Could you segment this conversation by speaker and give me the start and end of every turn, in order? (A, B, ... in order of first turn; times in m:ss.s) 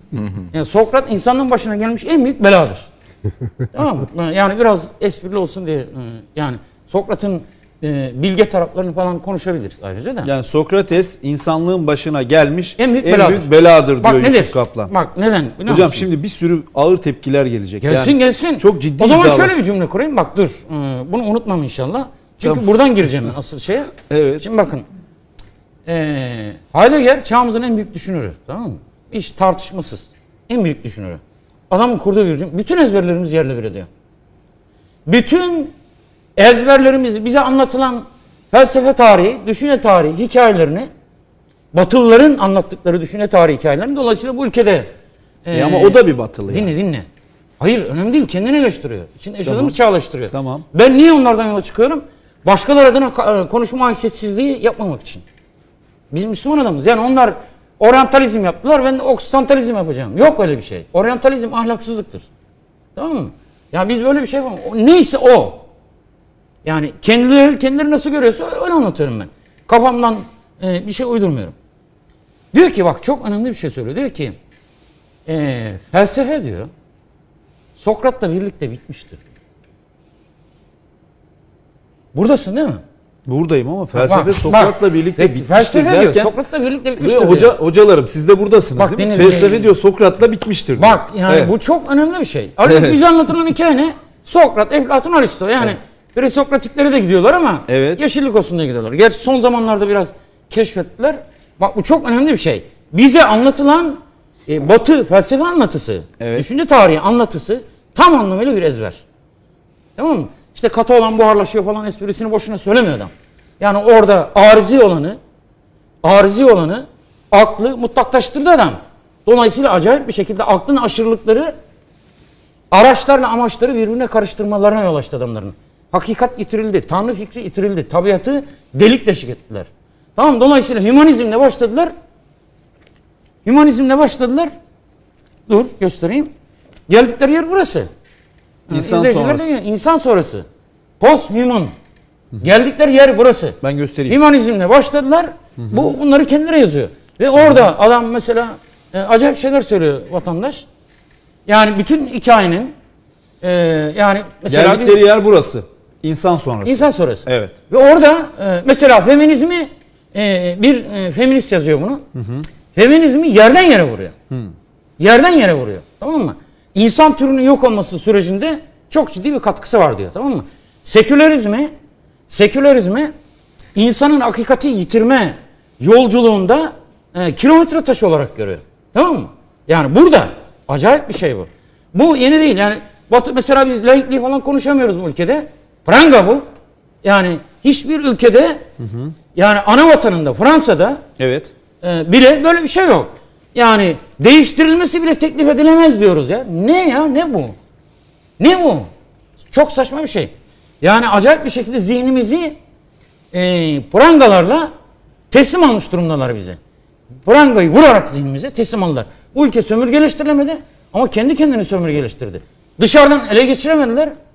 0:00.5-0:02.9 A
0:03.7-0:10.3 A
0:10.2-0:14.9 B
0:12.8-0:13.5 A
0:14.0-0:16.0 A
0:15.7-0:19.6 B
0:17.8-0:24.8 A
0:24.0-0:24.4 B
0:25.9-0:33.9 A
0:35.1-0:35.7 A
0:36.4-0:40.9 A
0:41.7-0:44.9 A
0:45.4-0:47.1 A
0:45.5-0:46.7 B
0:47.6-0:55.2 A
0:49.4-0:49.8 B
0:50.3-0:50.7 B
0:56.1-1:02.3 A
1:03.0-1:05.6 A
1:06.6-1:11.6 A
1:12.5-1:14.4 A
1:15.3-1:16.7 A
1:17.8-1:19.2 A
1:22.1-1:22.8 A
1:23.3-1:26.3 B
1:24.0-1:27.5 A
1:27.0-1:31.5 B
1:28.8-1:29.7 A
1:30.8-1:49.0 A
1:32.6-1:33.0 B
1:37.7-1:38.0 B
1:46.2-1:46.5 B
1:50.0-1:55.2 A
1:56.0-2:01.5 A
2:02.7-2:11.9 A
2:13.4-2:14.5 A
2:15.5-2:16.3 A
2:16.9-2:17.9 A
2:18.7-2:20.4 A
2:18.7-2:19.5 B
2:21.0-2:21.7 A
2:22.4-2:30.7 A
2:23.6-2:24.2 B
2:25.6-2:25.9 B
2:31.5-2:32.7 A
2:33.4-2:35.0 A
2:34.5-2:37.6 B
2:36.6-2:42.0 A
2:42.2-2:42.5 B
2:42.7-2:44.1 A
2:45.0-2:51.7 A
2:52.3-2:53.1 A
2:53.8-3:06.4 A
3:07.0-3:08.6 A
3:08.8-3:09.1 B
3:09.4-3:11.0 A
3:11.2-3:11.5 B
3:11.8-3:17.6 A
3:18.4-3:18.9 A
3:19.5-3:22.6 A
3:23.3-3:24.7 A
3:25.3-3:26.6 A
3:27.2-3:34.1 A